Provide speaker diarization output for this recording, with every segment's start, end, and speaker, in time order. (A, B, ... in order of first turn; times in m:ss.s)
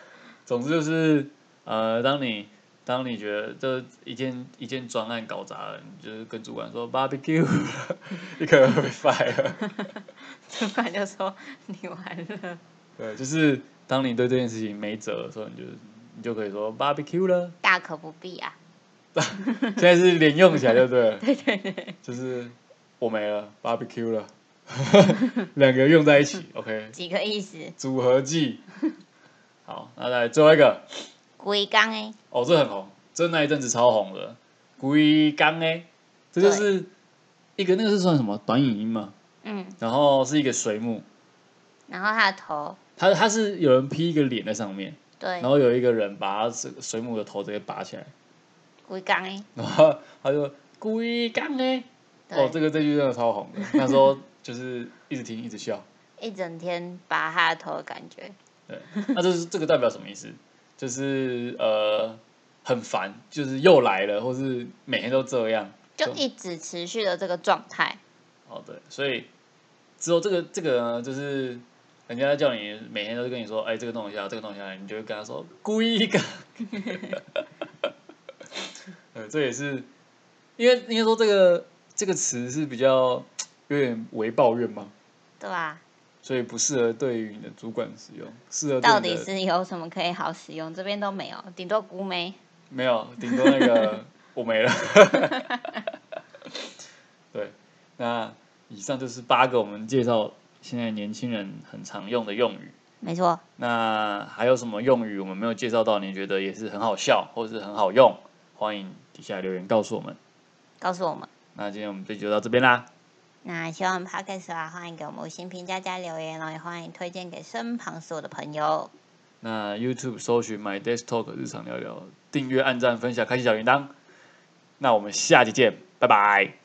0:00.5-0:09.7 A
0:09.6-0:12.6 B
0:13.0-0:17.5 A
0:17.6-0:18.6 B
0:19.1-0:21.2 A
0:21.2-0:22.0 B
0:22.0-0:27.0 A
0:26.9-0:27.8 B
0:27.8-0:28.6 A
0:29.6-0:31.1 A
0:31.4-0:32.2 B
0:32.3-0:36.9 A
0:36.4-0:36.7 B
0:37.6-0:39.1 A
0:39.4-0:39.8 B
0:39.8-0:41.0 A
0:41.9-0:42.8 B
0:43.0-0:48.1 A
0:45.2-0:45.5 B
0:48.9-0:49.5 B
0:49.5-0:55.8 A
0:52.3-0:52.6 B
0:53.7-0:54.0 B
0:56.2-0:58.4 B
0:58.7-1:06.2 A
1:06.0-1:08.0 B
1:08.5-1:09.3 A
1:10.0-1:17.2 A
1:19.1-1:19.9 A
1:20.6-1:24.9 A
1:25.4-1:25.8 B
1:26.2-1:29.3 A
1:28.8-1:32.4 B
1:32.7-1:35.5 A
1:33.3-1:33.9 B
1:37.3-1:42.8 A
1:43.0-1:43.4 B
1:43.6-1:50.2 A
1:50.8-1:51.3 B
1:51.5-1:52.9 A
1:53.4-1:58.9 B
1:59.4-2:03.9 A
2:04.8-2:06.5 A